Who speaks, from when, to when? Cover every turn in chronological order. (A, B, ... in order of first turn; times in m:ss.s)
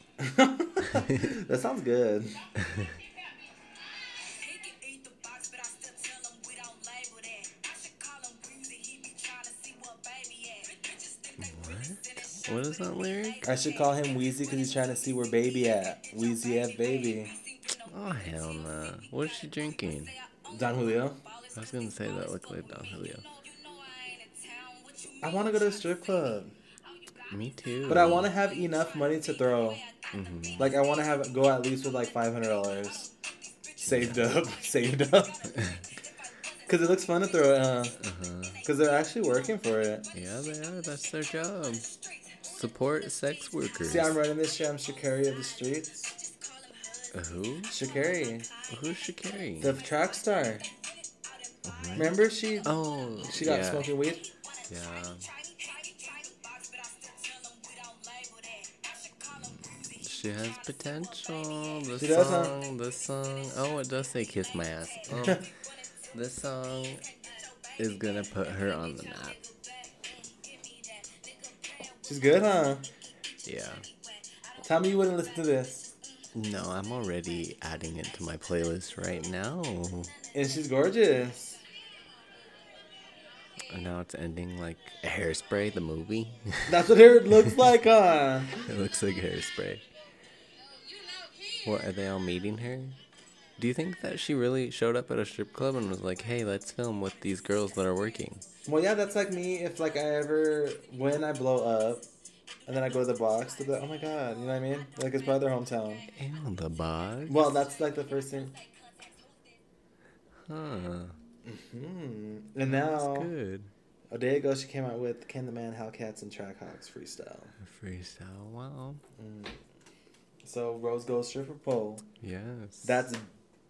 0:00.2-0:02.5 A
0:00.8-0:01.3 B
0:02.6-0:30.9 C
0:02.6-0:02.9 B
0:11.4-0:13.5 B
0:13.4-0:17.3 A
0:17.8-0:20.1 B
0:20.5-0:21.2 A
0:21.6-0:23.2 B
0:25.2-0:26.5 A
0:27.3-0:28.3 B
0:27.9-0:29.8 A
0:30.1-0:30.7 B
0:30.6-0:33.1 A
0:31.7-0:49.1 C
0:33.8-0:35.5 A
0:33.8-0:34.3 B
0:35.5-0:35.8 B
0:36.7-0:38.0 A
0:38.0-0:38.6 B
0:38.6-0:40.1 A
0:40.1-0:41.9 B
0:42.4-0:44.2 B
0:43.8-0:46.1 A
0:47.1-0:47.7 B
0:47.7-0:48.5 A
0:48.7-0:49.8 B
0:49.6-0:50.7 A
0:50.4-0:53.1 C
0:51.7-0:53.9 B
0:52.0-0:54.3 A
0:53.9-1:16.4 C
0:54.7-0:55.3 B
0:59.4-1:05.4 B
1:02.0-1:02.6 A
1:05.1-1:05.4 A
1:06.1-1:07.0 B
1:07.8-1:09.4 B
1:12.1-1:12.9 A
1:13.5-1:13.8 B
1:14.6-1:15.9 A
1:16.3-1:20.1 B
1:18.2-1:19.4 C
1:20.0-1:22.6 C
1:20.3-1:21.6 A
1:23.3-1:23.9 C
1:23.7-1:27.8 B
1:26.7-1:28.6 A
1:28.5-1:29.8 B
1:30.6-1:31.9 C
1:31.6-1:33.0 B
1:33.6-1:38.4 B
1:36.2-1:39.9 C
1:38.7-1:42.1 A
1:42.6-1:49.6 C
1:42.7-1:46.1 A
1:46.1-1:47.5 B
1:47.3-1:48.5 A
1:50.5-1:51.2 B
1:51.4-1:53.3 A
1:52.6-1:53.7 B
1:54.1-1:57.6 A
1:57.6-1:59.0 B
1:59.2-1:59.6 A
2:00.4-2:02.1 A
2:02.2-2:03.0 B
2:02.8-2:03.3 A